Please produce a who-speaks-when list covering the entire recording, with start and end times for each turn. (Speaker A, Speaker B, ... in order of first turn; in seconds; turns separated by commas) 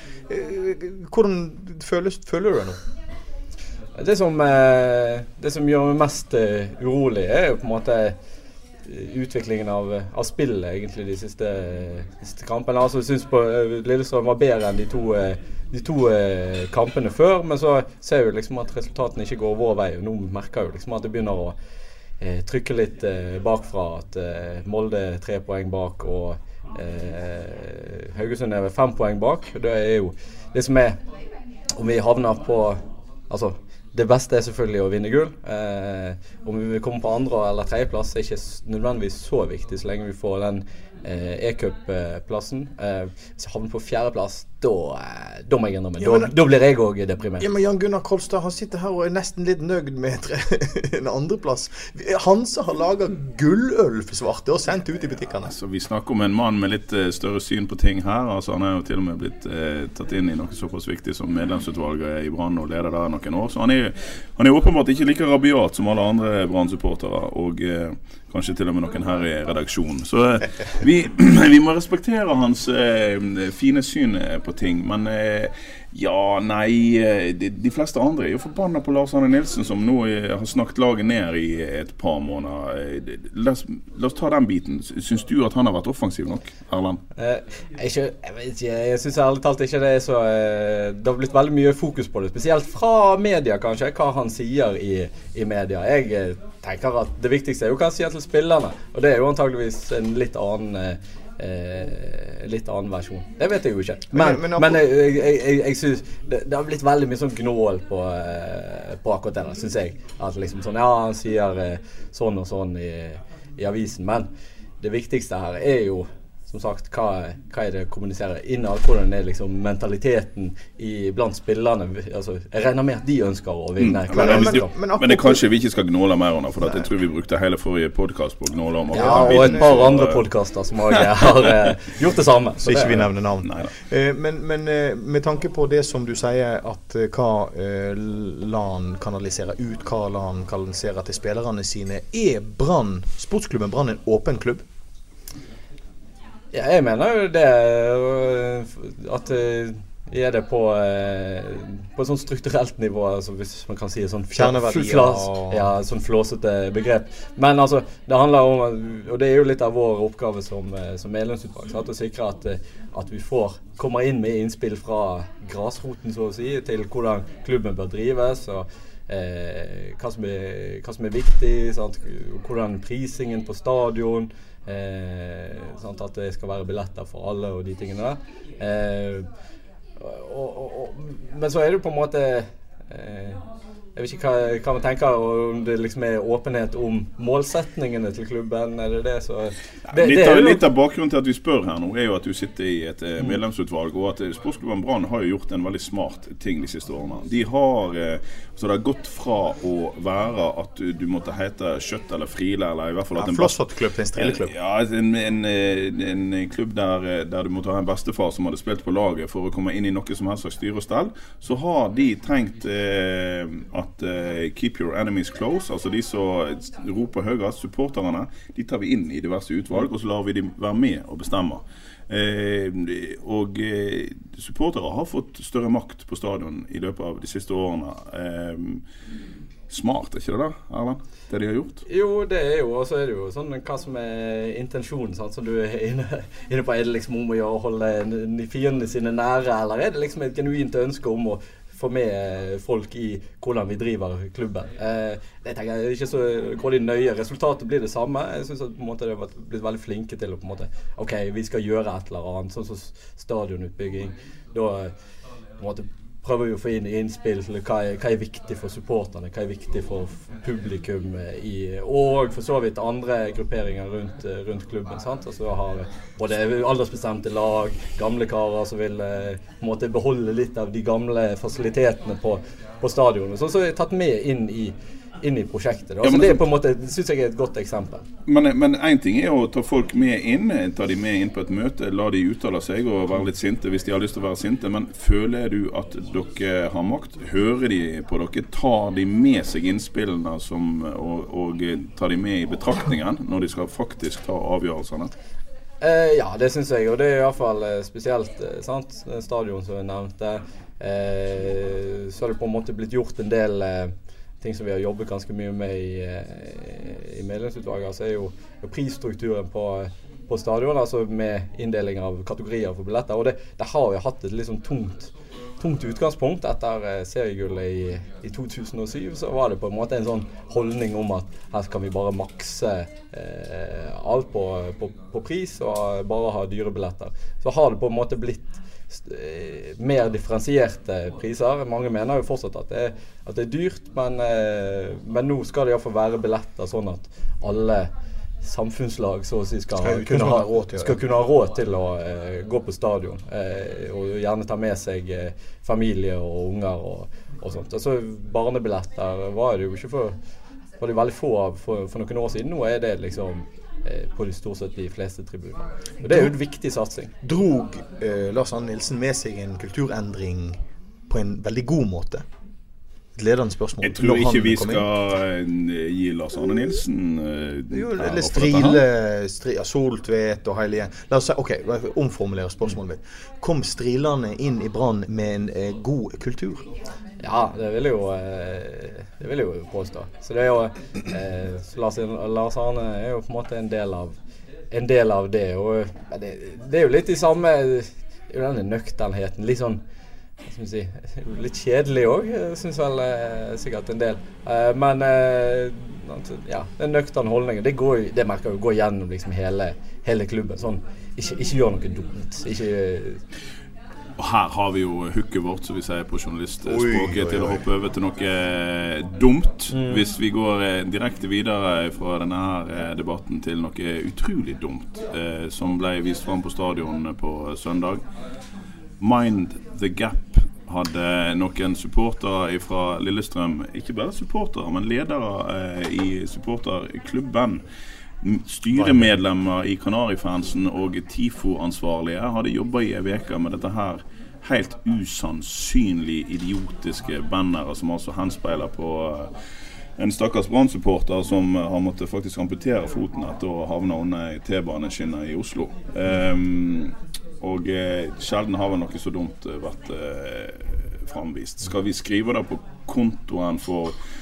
Speaker A: 0.3-2.8, Speaker B: 4.0-8.2, Speaker B: 8.8-21.6, Speaker B: 22.2-31.0, Speaker B: 31.8-47.5, Speaker A: 46.0-46.5, Speaker A: 47.4-55.5, Speaker C: 55.4-87.0, Speaker B: 87.2-124.7, Speaker A: 104.1-104.8, Speaker C: 123.8-130.2, Speaker A: 124.1-125.4, Speaker A: 126.6-126.9, Speaker A: 128.9-129.9, Speaker B: 128.9-133.1, Speaker C: 130.9-131.3, Speaker A: 132.6-144.6, Speaker C: 133.4-133.7, Speaker B: 146.5-179.3, Speaker A: 154.3-155.7, Speaker B: 180.0-183.4, Speaker B: 183.9-190.6, Speaker C: 189.9-203.6, Speaker A: 203.1-204.5, Speaker C: 204.1-228.8, Speaker C: 229.7-231.8, Speaker B: 231.9-254.9, Speaker B: 255.6-278.1, Speaker C: 276.0-276.4, Speaker C: 278.2-295.1, Speaker B: 295.8-337.9, Speaker B: 338.4-350.1, Speaker A: 339.7-341.0, Speaker B: 350.8-357.1, Speaker A: 356.0-356.3, Speaker A: 357.2-362.2, Speaker A: 363.1-364.9, Speaker C: 363.8-368.8, Speaker A: 367.7-376.7, Speaker B: 377.2-384.2, Speaker B: 384.7-389.8, Speaker B: 390.5-403.2, Speaker C: 404.2-418.0, Speaker A: 406.6-407.7, Speaker B: 409.7-410.1, Speaker C: 419.0-427.6, Speaker C: 428.2-439.3, Speaker A: 428.7-429.1, Speaker C: 440.0-454.0